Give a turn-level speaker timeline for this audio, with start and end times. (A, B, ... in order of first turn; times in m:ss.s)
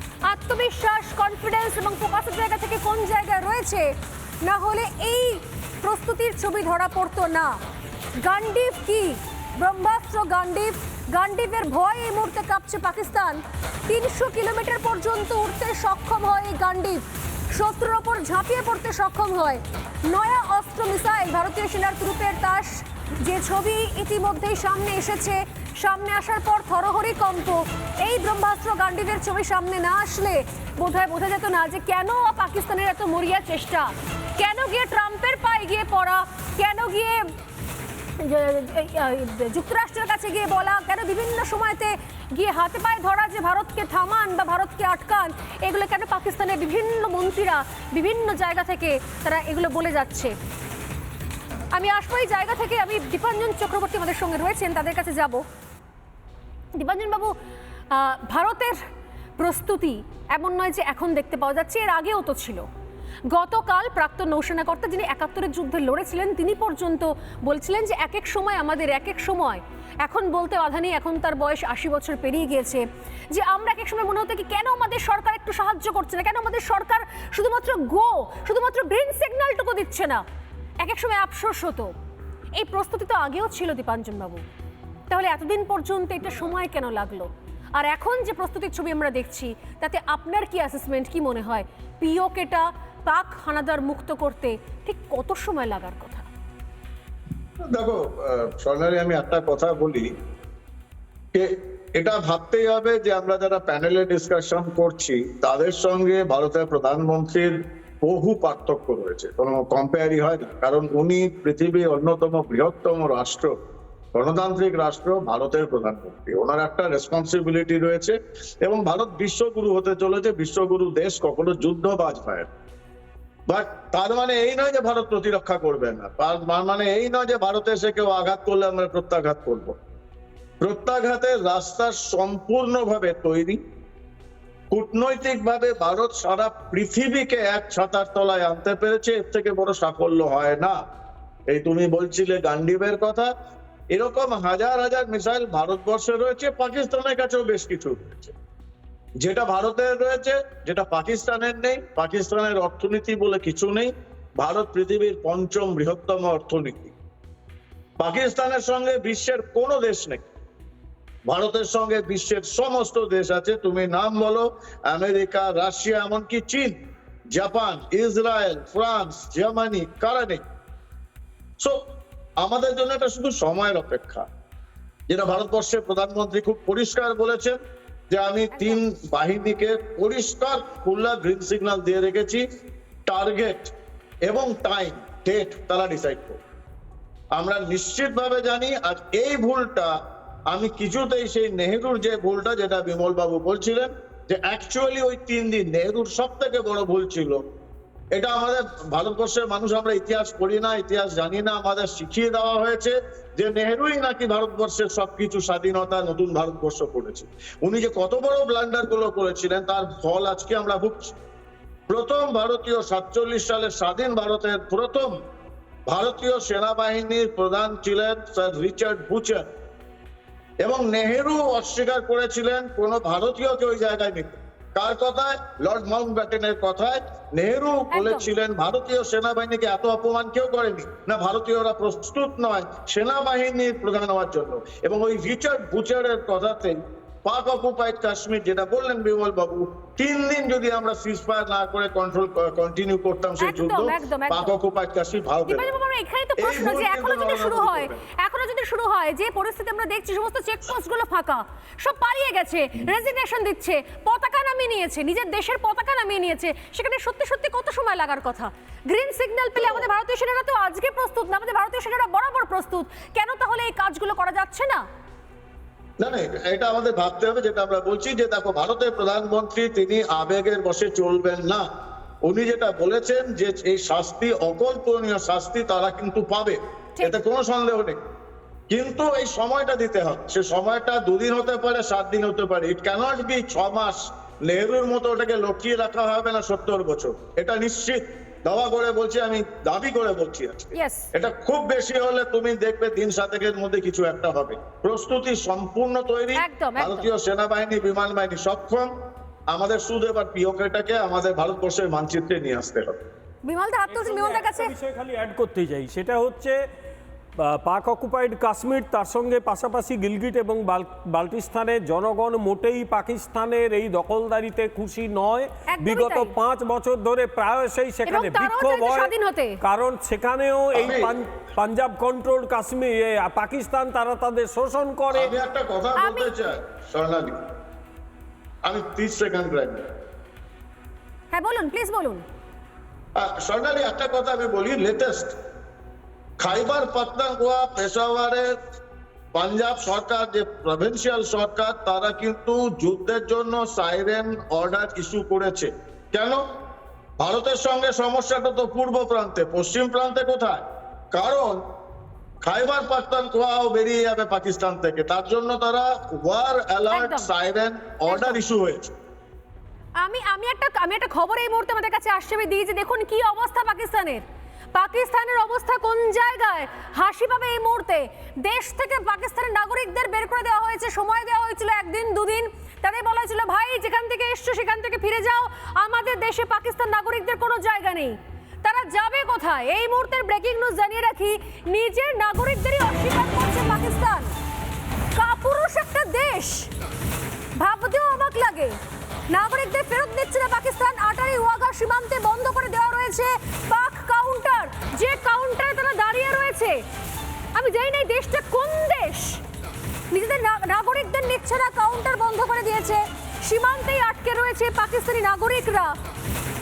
0:00.2-0:07.6 A
0:08.2-0:37.3 A
0:38.2-0:50.4 A
0:51.7-0:55.4 A
0:56.7-0:57.4 A
0:57.9-0:58.8 A
0:59.4-1:02.6 A
1:03.3-1:20.2 A
1:20.8-1:21.9 A
1:22.5-1:24.4 A
1:25.1-1:36.3 A
1:37.7-1:40.1 B
1:41.3-1:53.5 B
1:54.1-2:02.5 B
2:03.5-2:09.7 B
2:10.6-2:13.6 B
2:14.7-2:20.8 B
2:21.5-2:23.3 B
2:23.9-2:28.3 B
2:29.2-2:36.9 B
2:38.0-2:40.3 B
2:41.3-2:46.8 B
2:47.3-2:50.4 B
2:52.4-2:54.2 B
2:55.1-2:57.6 B
2:58.1-3:02.4 B
2:58.5-2:58.8 A
3:03.0-3:03.7 B
3:04.2-3:06.4 B
3:07.4-3:09.9 B
3:10.5-3:17.4 B
3:18.2-3:31.2 B
3:31.9-3:35.1 B
3:35.9-3:39.4 B
3:40.6-4:05.7 B
3:47.9-3:48.3 A
4:03.4-4:04.5 A
4:05.5-4:24.8 A
4:06.4-4:08.0 B
4:19.6-4:19.8 B
4:26.0-4:31.6 B
4:32.2-4:38.0 B
4:38.7-4:58.9 B
4:50.7-4:51.1 A
4:56.4-4:57.1 A
4:59.5-5:03.0 B
5:03.4-5:04.7 A
5:03.9-5:06.6 C
5:07.4-5:25.3 C
5:15.7-5:16.3 A
5:18.0-5:19.6 A
5:20.7-5:21.1 B
5:25.1-5:27.4 B
5:26.0-5:26.4 A
5:28.6-5:29.9 B
5:31.3-5:32.2 A
5:33.2-5:35.3 B
5:36.4-5:38.5 B
5:39.3-5:46.4 B
5:47.2-5:51.6 B
5:52.4-5:58.9 B
5:56.9-5:57.3 A
5:58.1-5:58.4 A
6:00.0-6:24.3 A
6:25.1-6:26.7 A
6:27.6-6:28.8 A
6:29.3-6:36.8 A
6:37.5-6:39.4 A
6:40.1-6:46.0 A